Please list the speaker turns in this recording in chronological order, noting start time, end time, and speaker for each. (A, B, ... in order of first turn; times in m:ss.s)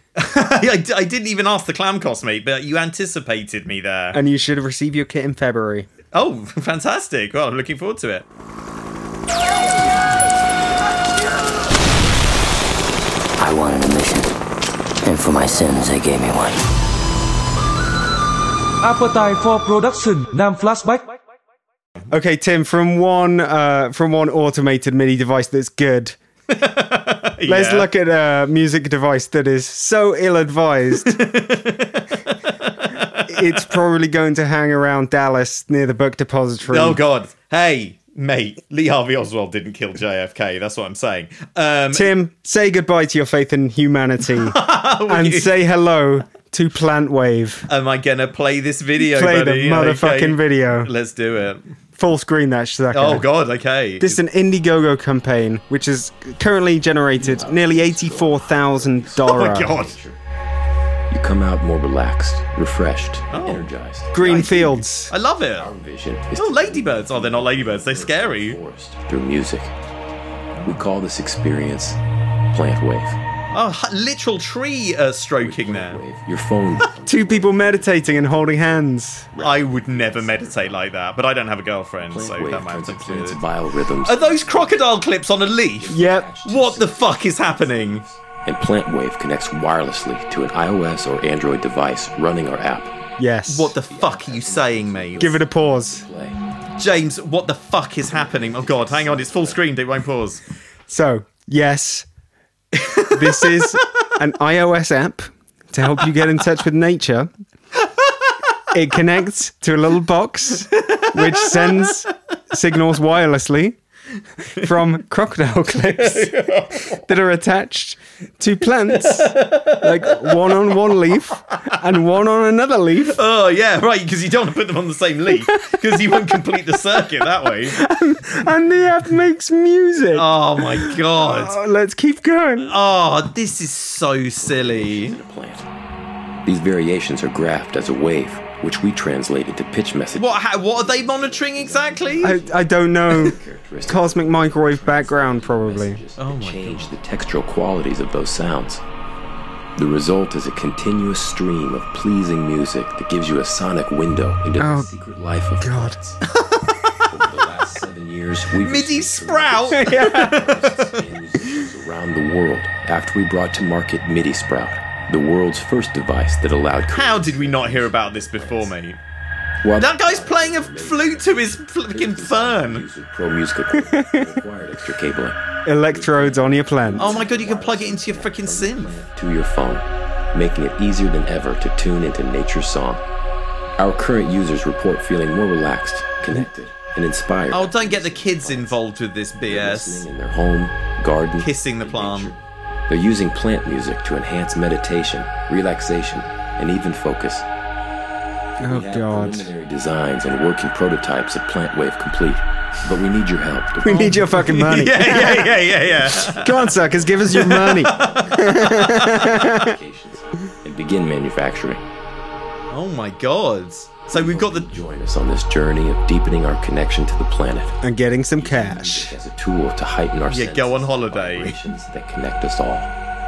0:00.2-0:04.2 A
0:04.1-0:05.9 B
0:06.1-0:08.3 A
0:13.4-0:14.4 C
0:15.0-0:16.6 C
0:18.8-0:21.1 D
0:22.1-0:26.2 B
0:26.5-0:27.9 A
0:27.4-0:31.2 B
0:31.0-0:33.7 A
0:33.3-0:37.0 B
0:36.7-0:42.1 A
0:41.9-0:47.7 B
0:44.5-0:45.6 A
0:47.7-0:51.7 A
0:49.0-0:50.9 B
0:52.0-0:53.3 B
0:52.9-0:54.2 A
0:54.0-0:59.8 B
0:57.2-1:00.2 E
0:59.2-1:00.0 A
1:01.1-1:04.8 E
1:03.3-1:03.7 A
1:04.1-1:05.1 B
1:04.3-1:04.5 A
1:05.1-1:05.7 A
1:05.6-1:09.8 E
1:06.4-1:08.6 A
1:10.6-1:10.8 A
1:10.6-1:12.0 E
1:12.5-1:13.2 E
1:13.5-1:16.0 A
1:15.4-1:20.8 E
1:17.0-1:19.3 B
1:19.4-1:23.4 A
1:22.0-1:24.9 E
1:24.0-1:28.0 A
1:25.8-1:33.0 E
1:25.9-1:26.3 B
1:33.2-1:33.8 B
1:33.5-1:35.4 A
1:33.9-1:36.4 E
1:35.2-1:36.1 B
1:36.8-1:40.4 A
1:38.0-1:39.6 E
1:40.9-1:42.1 B
1:42.8-1:43.8 A
1:43.1-1:47.3 B
1:48.7-1:53.8 B
1:50.8-1:51.9 A
1:54.6-2:03.2 B
1:56.0-1:57.0 A
1:58.9-2:01.0 A
2:03.1-2:07.8 A
2:05.4-2:06.4 B
2:06.9-2:12.8 B
2:10.1-2:11.6 A
2:12.6-2:15.2 A
2:14.4-2:15.7 E
2:16.4-2:28.8 E
2:20.2-2:22.4 A
2:22.2-2:26.0 B
2:26.2-2:26.9 A
2:29.8-2:36.2 E
2:34.6-2:34.9 B
2:35.6-2:36.0 B
2:37.1-2:48.8 E
2:38.6-2:41.0 A
2:39.8-2:40.4 B
2:46.9-2:49.0 A
2:49.6-3:03.0 E
2:49.8-2:52.8 A
2:53.8-2:54.4 B
2:55.6-2:57.2 B
2:57.0-2:59.0 A
3:03.8-3:08.8 E
3:07.5-3:10.0 A
3:09.4-3:17.5 E
3:11.4-3:12.3 A
3:18.6-3:19.5 B
3:18.6-3:24.7 E
3:23.8-3:29.7 B
3:23.8-3:26.8 A
3:26.8-3:31.8 E
3:27.3-3:29.4 A
3:32.7-3:34.7 A
3:34.1-3:37.8 E
3:37.8-3:39.1 B
3:38.4-3:42.9 E
3:40.3-3:41.6 A